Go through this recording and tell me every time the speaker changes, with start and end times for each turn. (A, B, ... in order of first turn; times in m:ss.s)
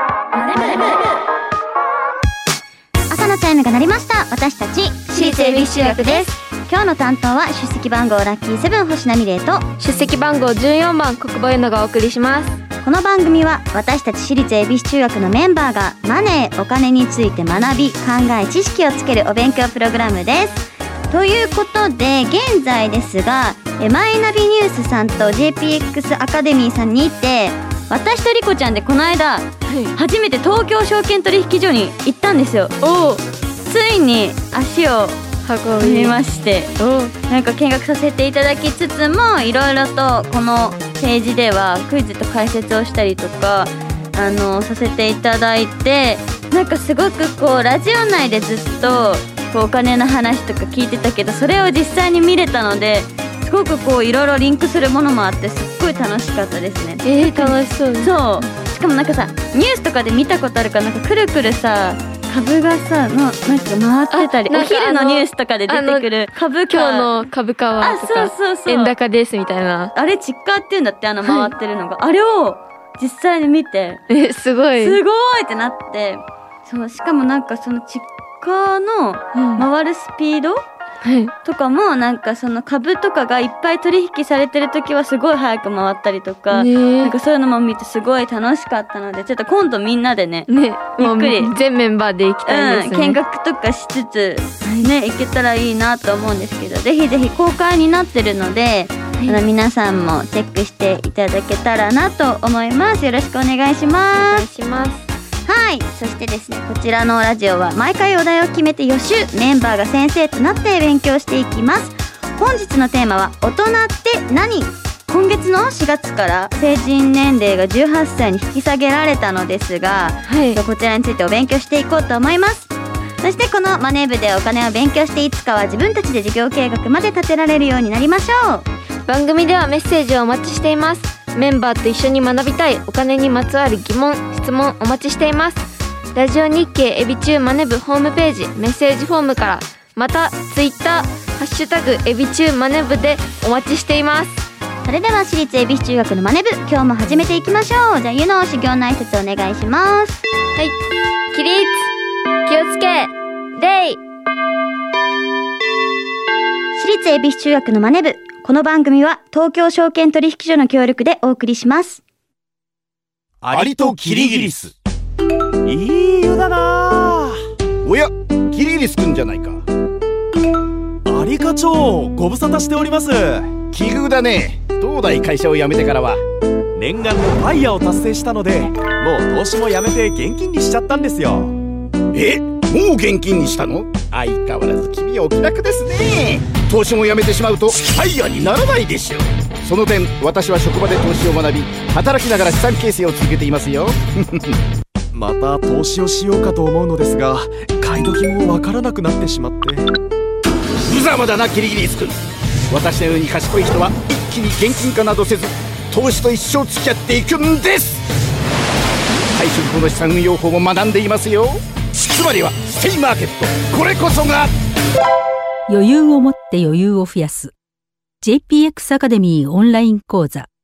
0:00.3-0:01.2 A
0:03.1-0:09.6 A
0:05.1-0:06.3 B
0:09.8-0:12.6 B
0:12.8-0:32.7 A
0:29.7-0:29.9 B
0:32.8-0:33.2 B
0:33.7-0:35.2 A
0:35.4-0:36.2 B
0:35.8-0:36.7 A
0:36.8-0:37.1 B
0:37.3-1:07.1 A
0:57.0-0:58.1 B
1:04.1-1:09.9 B
1:07.8-1:08.9 A
1:09.9-1:14.0 A
1:11.2-1:11.5 B
1:14.1-1:15.0 B
1:14.8-1:20.6 A
1:19.3-1:19.6 B
1:21.0-1:21.3 B
1:21.4-1:31.5 A
1:26.5-1:27.1 B
1:30.5-1:33.2 B
1:32.4-1:44.4 A
1:44.2-1:45.1 B
1:45.4-2:02.7 A
2:00.3-2:00.6 B
2:03.2-2:08.7 A
2:09.1-2:15.6 B
2:16.1-2:24.4 B
2:24.8-2:30.2 A
2:31.3-2:31.9 B
2:32.4-2:34.0 B
2:36.7-2:42.0 A
2:43.4-2:44.5 C
2:43.5-2:44.7 D
2:45.6-2:47.3 C
2:47.8-2:49.6 D
2:51.0-2:53.6 C
2:53.7-2:56.2 D
2:56.8-3:01.5 C
3:02.1-3:14.5 D
3:15.1-3:19.8 C
3:20.9-3:22.2 D
3:22.7-3:28.0 D
3:29.3-3:34.5 D
3:35.7-3:37.5 E
3:38.2-3:40.5 E